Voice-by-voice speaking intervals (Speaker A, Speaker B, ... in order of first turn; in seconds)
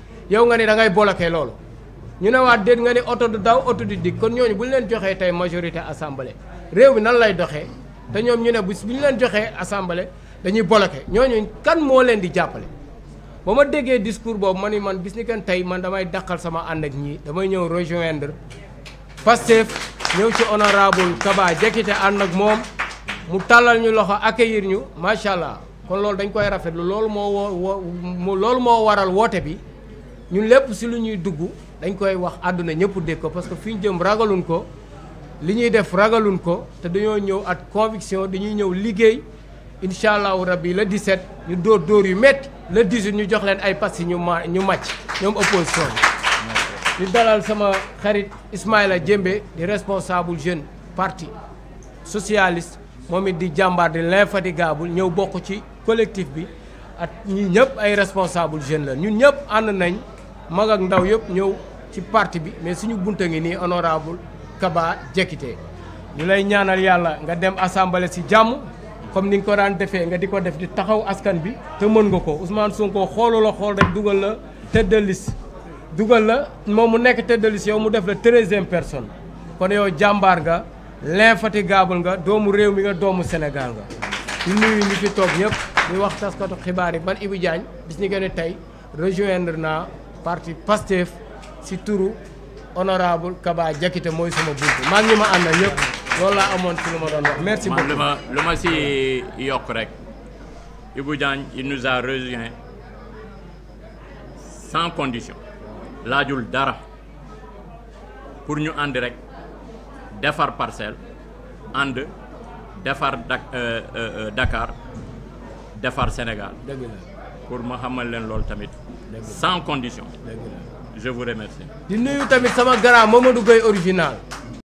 Speaker A: 0.3-1.6, 2.2-12.7, 13.4-18.4, 19.2-22.6, 23.3-29.6, 30.3-34.7, 35.4-39.2, 39.8-46.0, 47.0-51.3, 52.0-65.6, 66.2-75.4, 75.9-83.9, 84.4-92.2, 92.8-98.1, 116.6-117.1, 119.1-119.4, 120.2-120.7, 121.9-124.2
Speaker B: 97.6-100.0, 100.9-102.6, 104.4-105.4, 106.0-106.8, 108.5-109.2, 110.2-111.0, 111.7-112.1, 112.8-114.8, 115.8-116.6, 117.5-120.1, 120.9-121.7